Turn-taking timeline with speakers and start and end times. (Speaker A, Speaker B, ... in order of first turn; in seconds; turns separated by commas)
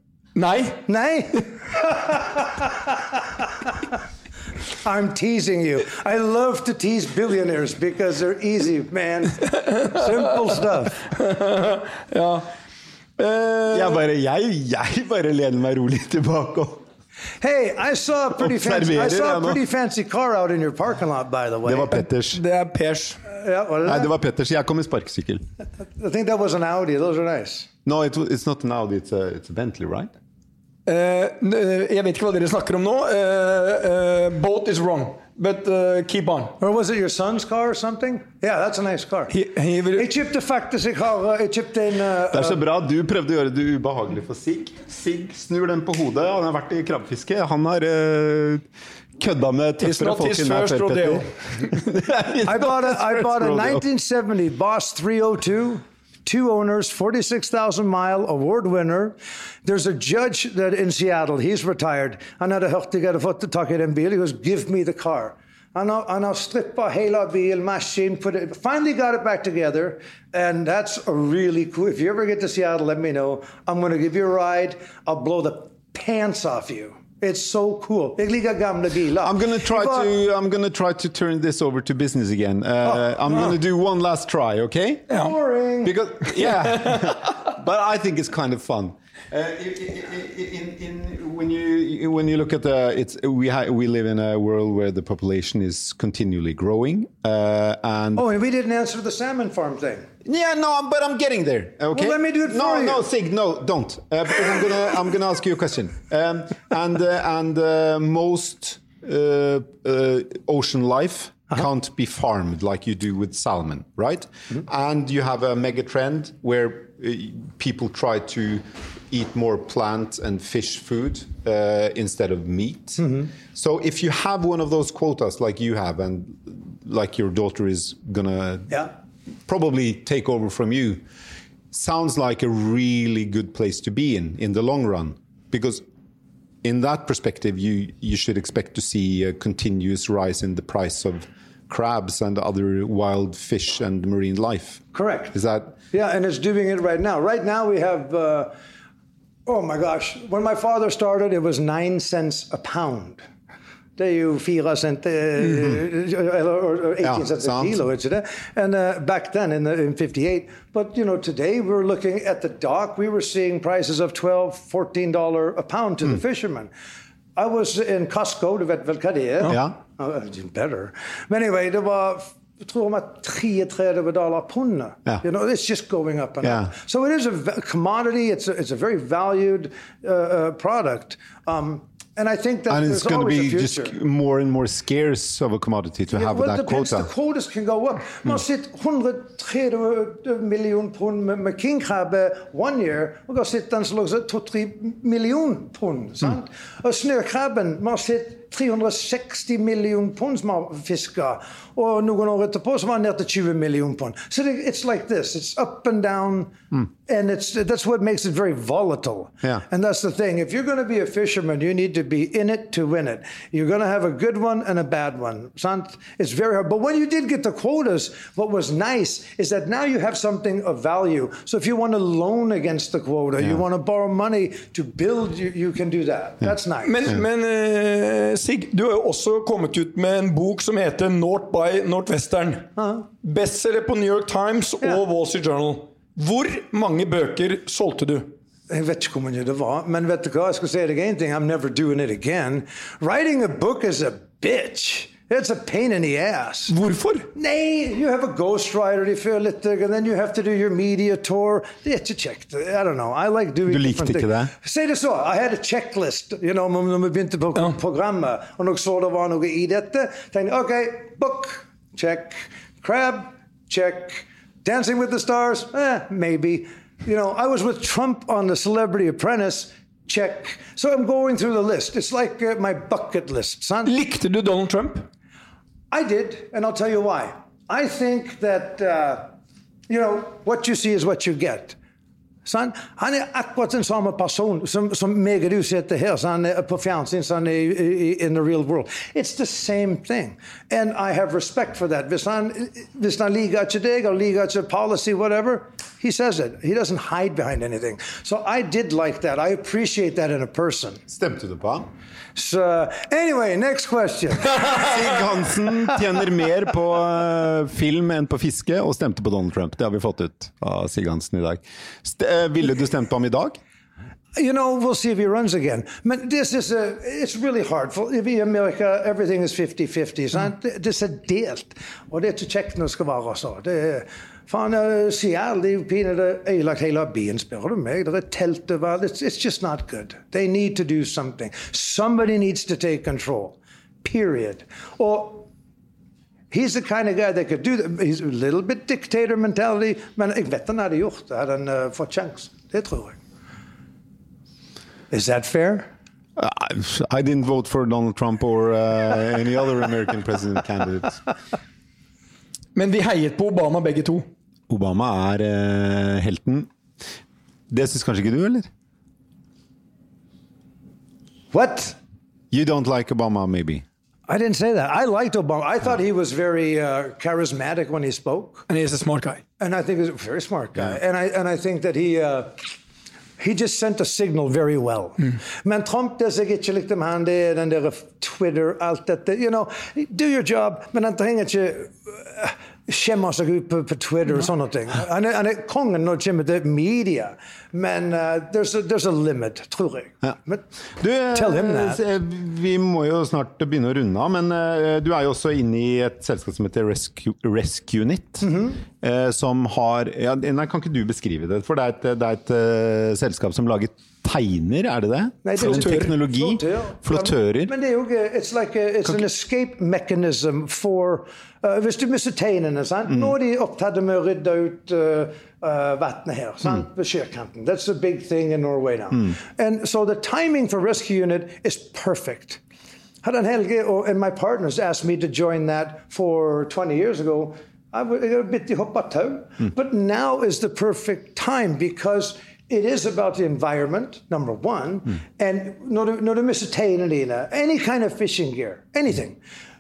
Speaker A: 0.3-0.8, Speaker B: 0.9-3.7, Speaker B: 4.8-11.0, Speaker A: 9.7-10.2, Speaker A: 11.1-12.5, Speaker A: 13.2-14.0, Speaker C: 13.7-16.8, Speaker B: 17.4-21.9, Speaker C: 18.4-19.6, Speaker C: 21.6-22.4, Speaker A: 22.3-23.2, Speaker B: 23.3-24.1, Speaker C: 23.9-25.4, Speaker B: 26.0-27.7, Speaker C: 27.9-30.1, Speaker A: 30.9-36.5, Speaker B: 36.6-39.3, Speaker A: 39.3-40.1, Speaker B: 39.9-42.6, Speaker C: 42.3-48.6, Speaker C: 49.2-53.8, Speaker A: 49.8-51.7, Speaker B: 52.4-80.1, Speaker C: 79.2-85.1, Speaker B: 82.9-83.5, Speaker B: 85.1-86.0, Speaker C: 85.8-98.2, Speaker A: 86.4-87.1, Speaker B: 98.2-100.1, Speaker C: 100.2-128.9, Speaker B: 101.9-103.0, Speaker B: 123.0-123.3, Speaker C: 129.5-131.0, Speaker C: 131.7-135.8, Speaker C: 136.6-145.8, Speaker B: 144.9-145.3, Speaker B: 145.9-148.5, Speaker B: 149.5-153.2, Speaker B: 154.0-166.7, Speaker C: 157.0-157.8, Speaker B: 167.4-183.9, Speaker C: 169.4-169.8, Speaker C: 176.4-176.7, Speaker C: 182.7-187.1, Speaker B: 186.1-227.1, Speaker A: 226.8-232.7, Speaker B: 232.8-233.1, Speaker A: 233.2-238.3, Speaker B: 238.7-246.8, Speaker A: 246.7-247.3, Speaker B: 247.3-273.9, Speaker C: 253.7-254.5, Speaker A: 273.9-275.1, Speaker B: 275.9-279.3, Speaker B: 279.9-281.8, Speaker B: 282.4-301.0, Speaker C: 301.1-301.9, Speaker B: 302.4-304.9, Speaker C: 304.8-313.6, Speaker B: 314.4-335.5, Speaker B: 336.5-343.2, Speaker B: 345.1-345.9, Speaker C: 346.4-351.2, Speaker A: 352.8-354.2, Speaker C: 354.7-356.7, Speaker C: 357.7-358.7, Speaker B: 361.5-362.0, Speaker C: 362.5-363.8, Speaker B: 364.3-368.7, Speaker A: 368.7-369.4, Speaker B: 369.6-372.7, Speaker B: 373.4-390.6, Speaker C: 391.0-407.7, Speaker B: 391.3-392.0, Speaker B: 398.4-398.8, Speaker B: 405.4-422.6, Speaker A: 405.6-406.1, Speaker B: 423.2-439.4